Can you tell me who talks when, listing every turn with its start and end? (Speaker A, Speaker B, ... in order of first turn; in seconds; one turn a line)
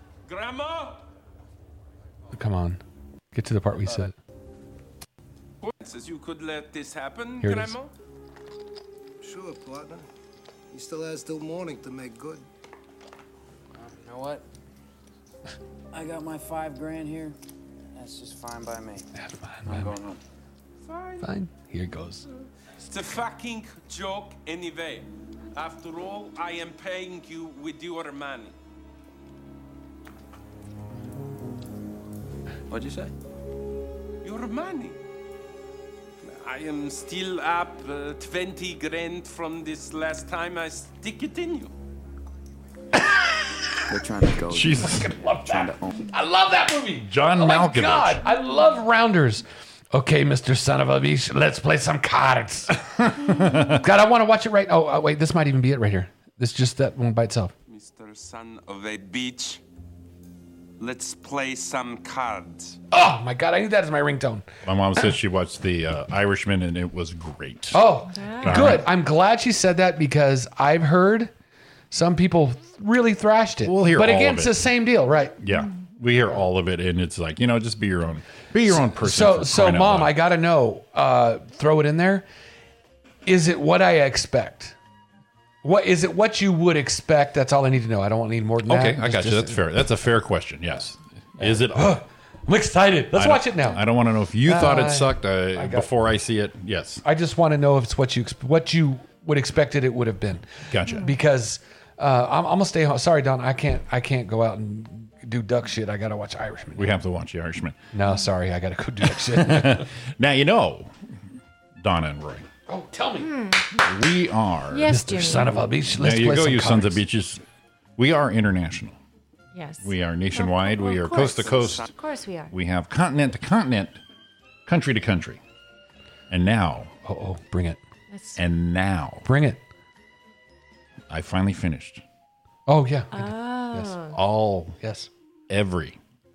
Speaker A: 0.2-1.1
Speaker B: 2.3-2.8
Speaker B: 3.3-4.1
Speaker A: 5.6-7.9
Speaker B: 7.4-7.8
Speaker C: 9.2-10.0
Speaker C: 10.7-12.4
Speaker D: 13.8-14.4
Speaker D: 15.9-17.4
Speaker D: 17.9-19.1
Speaker B: 19.2-19.9
Speaker D: 19.6-20.2
Speaker A: 20.8-21.2
Speaker B: 21.2-22.2
Speaker A: 22.8-28.5
Speaker A: 32.7-33.1
Speaker A: 34.2-35.0
Speaker A: 36.2-41.7
Speaker D: 43.9-44.7
Speaker E: 44.5-45.1
Speaker B: 44.8-57.5
Speaker E: 47.1-48.2
Speaker E: 52.9-53.8
Speaker A: 57.7-59.6
Speaker A: 60.8-62.8
Speaker B: 62.9-64.5
Speaker E: 64.6-67.8
Speaker B: 67.7-71.3
Speaker F: 68.1-68.8
Speaker E: 68.4-68.8
Speaker B: 71.9-75.3
Speaker E: 73.6-74.5
Speaker E: 75.4-80.1
Speaker B: 78.7-82.2
Speaker B: 83.2-84.8
Speaker B: 85.6-89.6
Speaker E: 88.6-92.0
Speaker B: 91.4-93.8
Speaker E: 93.1-97.0
Speaker B: 94.4-95.9
Speaker B: 97.0-106.9
Speaker E: 100.7-101.1
Speaker E: 106.8-107.8
Speaker B: 107.9-109.9
Speaker E: 109.1-110.9
Speaker E: 111.8-112.5
Speaker B: 112.7-113.3
Speaker F: 113.2-113.9
Speaker E: 113.8-114.9
Speaker F: 114.7-115.7
Speaker B: 114.9-117.0
Speaker E: 115.9-117.4
Speaker E: 118.0-119.0
Speaker F: 119.5-122.5
Speaker E: 119.8-121.9
Speaker E: 122.5-124.0
Speaker E: 124.7-125.4
Speaker E: 126.3-126.9
Speaker B: 127.0-127.8
Speaker F: 128.1-128.4
Speaker E: 128.4-129.2
Speaker B: 129.2-129.6
Speaker E: 131.1-132.0
Speaker B: 132.7-134.0
Speaker F: 133.1-134.2
Speaker E: 134.1-134.8
Speaker B: 134.8-135.1
Speaker E: 135.5-136.0